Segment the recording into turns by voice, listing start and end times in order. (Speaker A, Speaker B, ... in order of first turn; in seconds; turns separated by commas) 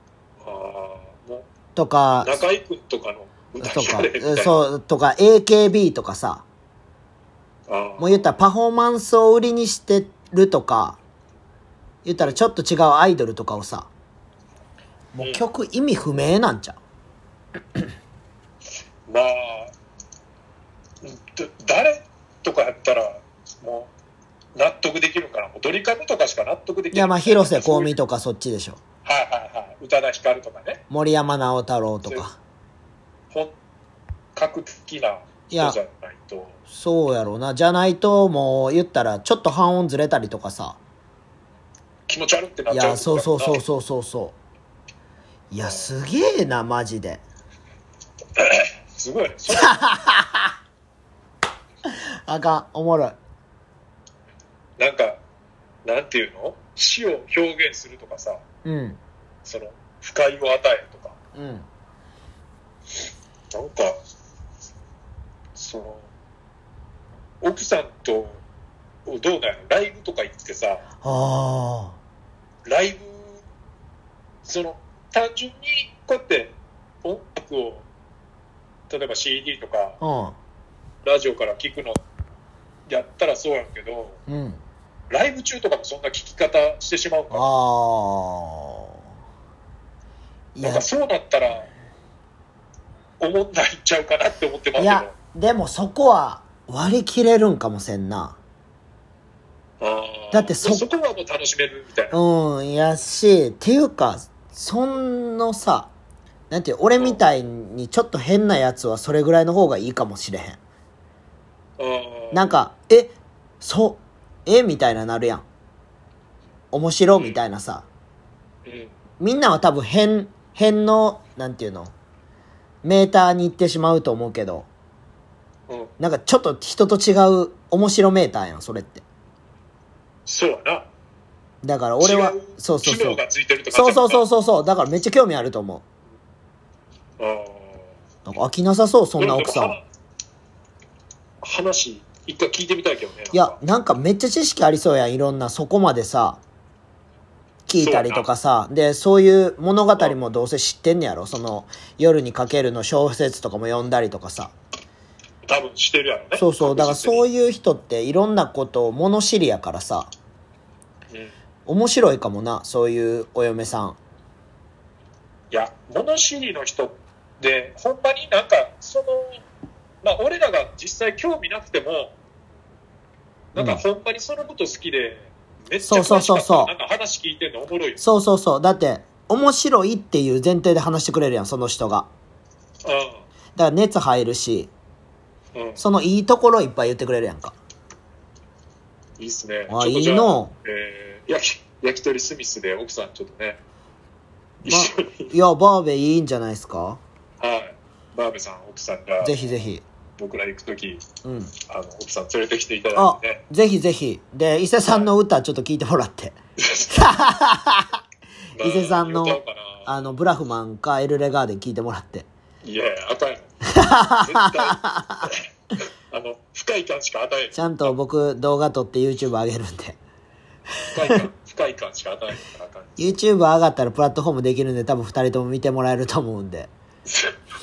Speaker A: 0.4-1.5, Speaker B: 1.8-2.4, Speaker A: 2.2-4.6, Speaker B: 3.6-6.4, Speaker A: 7.7-8.4, Speaker B: 8.0-11.0, Speaker B: 12.0-13.9, Speaker B: 15.1-16.8, Speaker A: 15.2-15.4, Speaker A: 19.1-19.7, Speaker A: 21.0-23.9, Speaker A: 24.5-27.9, Speaker B: 26.9-28.8, Speaker A: 29.0-30.8, Speaker B: 30.9-32.3, Speaker A: 34.4-36.6, Speaker B: 35.5-35.8, Speaker B: 36.7-40.8, Speaker A: 42.1-43.6, Speaker B: 42.7-44.3, Speaker B: 45.5-47.2, Speaker A: 45.6-45.9, Speaker A: 48.4-50.0, Speaker B: 49.5-50.5, Speaker B: 51.8-53.2, Speaker A: 54.8-55.2, Speaker A: 55.8-58.4, Speaker B: 58.6-59.0, Speaker A: 59.4-61.1, Speaker B: 61.3-61.6, Speaker A: 63.5-64.0, Speaker A: 65.5-66.1, Speaker A: 67.4-68.4, Speaker A: 69.0-70.8, Speaker B: 71.0-72.0, Speaker A: 72.6-73.4, Speaker A: 74.4-77.9, Speaker A: 78.9-80.0, Speaker B: 80.0-80.3, Speaker A: 81.0-82.0, Speaker A: 82.9-84.2, Speaker B: 84.3-84.6, Speaker A: 85.1-87.5, Speaker B: 87.3-89.0, Speaker B: 90.5-90.9, Speaker A: 90.6-91.7, Speaker A: 93.2-95.1, Speaker B: 94.8-98.4, Speaker A: 99.8-102.2, Speaker B: 100.3-100.9, Speaker B: 102.1-105.9, Speaker B: 106.5-110.6, Speaker A: 111.8-112.6, Speaker B: 112.3-115.4, Speaker B: 116.7-117.8, Speaker A: 117.1-117.4, Speaker A: 118.6-118.9, Speaker B: 119.2-121.9, Speaker B: 122.8-124.7, Speaker B: 126.0-129.0, Speaker A: 130.2-130.9, Speaker B: 131.6-133.2, Speaker A: 132.0-134.2, Speaker B: 133.7-135.8, Speaker A: 137.2-137.9, Speaker B: 138.2-139.8, Speaker A: 139.2-139.8, Speaker A: 141.4-143.6, Speaker B: 143.3-146.4, Speaker B: 147.7-154.5, Speaker A: 147.8-148.3, Speaker A: 155.4-157.2, Speaker B: 156.4-160.1, Speaker B: 161.7-164.0, Speaker A: 165.5-169.4, Speaker A: 170.0-172.1, Speaker A: 173.5-178.0, Speaker B: 173.6-173.8, Speaker B: 175.8-176.7, Speaker B: 178.0-182.1, Speaker A: 182.8-183.2, Speaker B: 183.6-184.7, Speaker A: 185.5-185.8, Speaker B: 185.8-187.6, Speaker A: 189.2-193.6, Speaker B: 189.7-190.5, Speaker A: 194.6-195.3, Speaker B: 194.7-197.0, Speaker A: 197.4-199.6, Speaker B: 199.2-199.8, Speaker A: 200.2-201.1, Speaker B: 201.2-201.5, Speaker A: 201.6-203.4, Speaker B: 202.9-206.3, Speaker A: 206.6-207.3, Speaker B: 206.9-208.0, Speaker A: 208.6-210.1, Speaker B: 208.6-212.2, Speaker A: 212.6-213.5, Speaker B: 213.6-215.3, Speaker A: 214.2-215.4, Speaker A: 216.1-217.9, Speaker B: 217.5-220.0, Speaker A: 220.9-223.2, Speaker B: 223.0-226.7, Speaker A: 227.1-227.3